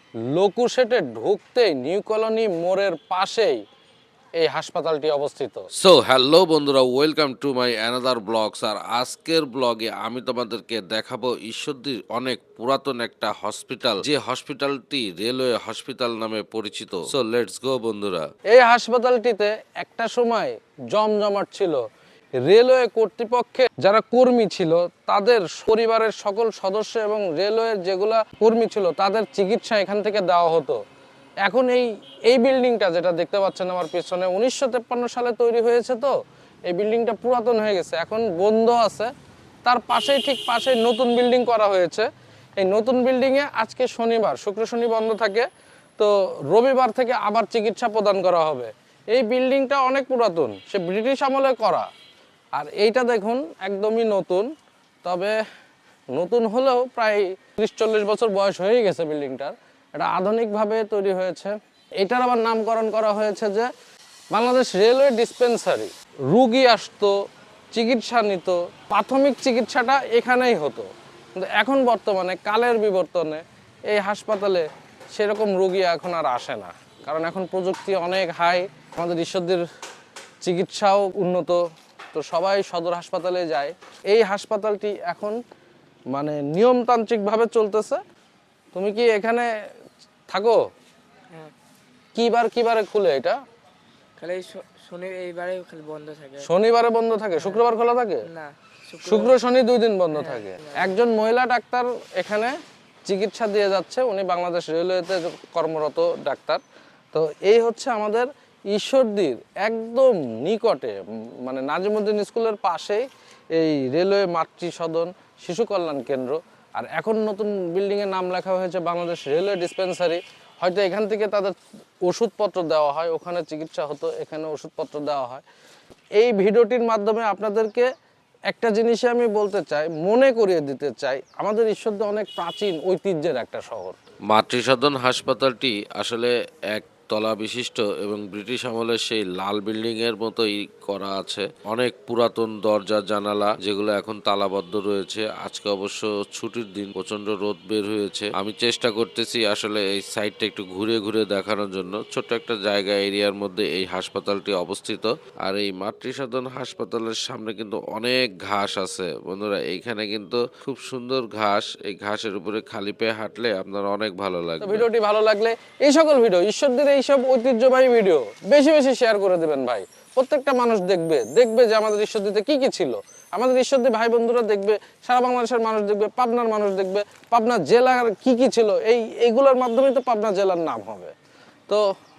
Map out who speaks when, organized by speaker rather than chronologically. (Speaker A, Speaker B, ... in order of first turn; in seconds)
Speaker A: 0.3-3.6, 4.4-5.7, 18.5-21.8, 22.4-30.8, 31.4-36.1, 36.7-39.1, 39.6-42.1, 42.6-45.5, 46.0-51.9, 52.5-54.5, 55.0-55.4, 56.1-63.7, 64.3-67.2, 67.7-79.7, 80.4-85.4, 86.1-88.0, 88.7-89.5, 90.3-90.6, 92.1-93.4, 96.4-98.2, 99.0-102.5, 103.1-106.6, 107.1-125.4, 126.2-127.9, 128.5-134.0, 164.6-181.1
Speaker B: 5.8-18.3, 134.3-164.8
Speaker C: 94.2-96.5, 97.4-97.6, 98.2-99.4, 100.1-101.0